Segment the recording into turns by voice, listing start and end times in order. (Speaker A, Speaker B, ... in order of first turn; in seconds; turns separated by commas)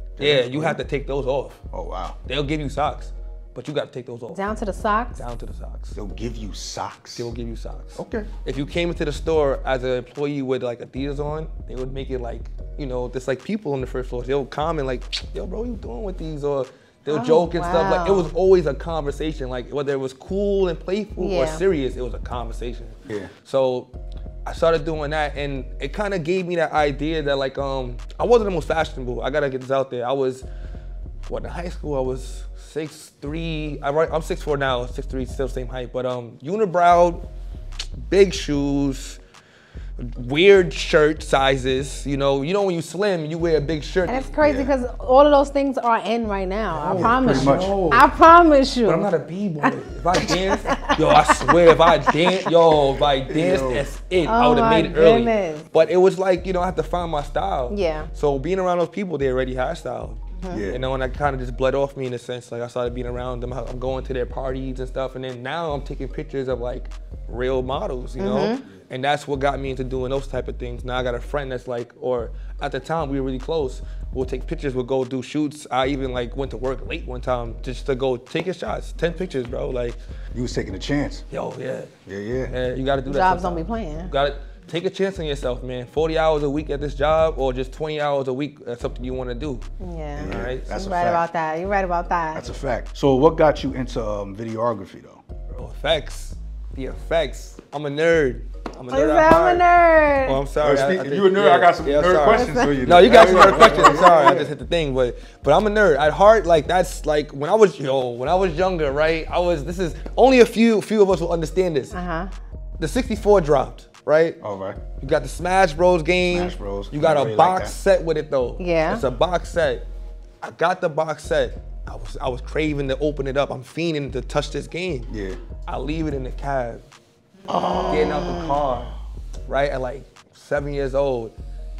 Speaker A: 0.2-0.8, Speaker B: 0.2-1.6, Speaker A: 1.7-2.2, Speaker B: 2.3-4.5, Speaker C: 4.3-5.2, Speaker B: 5.1-6.0, Speaker A: 5.9-7.3, Speaker B: 7.2-23.9, Speaker A: 8.0-8.3, Speaker C: 17.1-18.3, Speaker C: 21.2-21.6, Speaker A: 23.1-23.3, Speaker B: 24.4-30.4, Speaker B: 31.2-37.2, Speaker B: 38.0-39.2, Speaker B: 40.0-44.3, Speaker C: 44.1-49.1, Speaker A: 44.4-44.7, Speaker B: 46.7-48.0, Speaker A: 46.9-48.0, Speaker B: 48.8-80.0, Speaker C: 50.2-52.4, Speaker A: 52.7-53.8, Speaker C: 54.2-55.6, Speaker C: 57.7-58.1, Speaker A: 60.5-60.8, Speaker C: 68.2-68.6, Speaker A: 80.3-81.2, Speaker B: 81.3-81.9, Speaker A: 82.0-82.5, Speaker B: 82.5-89.6, Speaker C: 83.1-84.1, Speaker C: 89.8-92.5, Speaker A: 90.2-91.2, Speaker B: 90.2-90.7, Speaker A: 92.3-95.2, Speaker B: 95.5-99.6, Speaker C: 98.9-100.4, Speaker B: 100.2-112.0, Speaker A: 100.6-104.5, Speaker C: 102.2-102.8, Speaker C: 111.9-112.3, Speaker B: 112.8-114.4, Speaker A: 114.4-114.8, Speaker B: 115.0-119.8, Speaker A: 116.3-117.8, Speaker C: 118.6-119.0, Speaker B: 120.4-125.1, Speaker A: 125.1-125.4, Speaker B: 125.7-126.8, Speaker A: 127.5-128.6, Speaker C: 127.5-128.6, Speaker B: 127.9-128.9, Speaker B: 129.5-131.3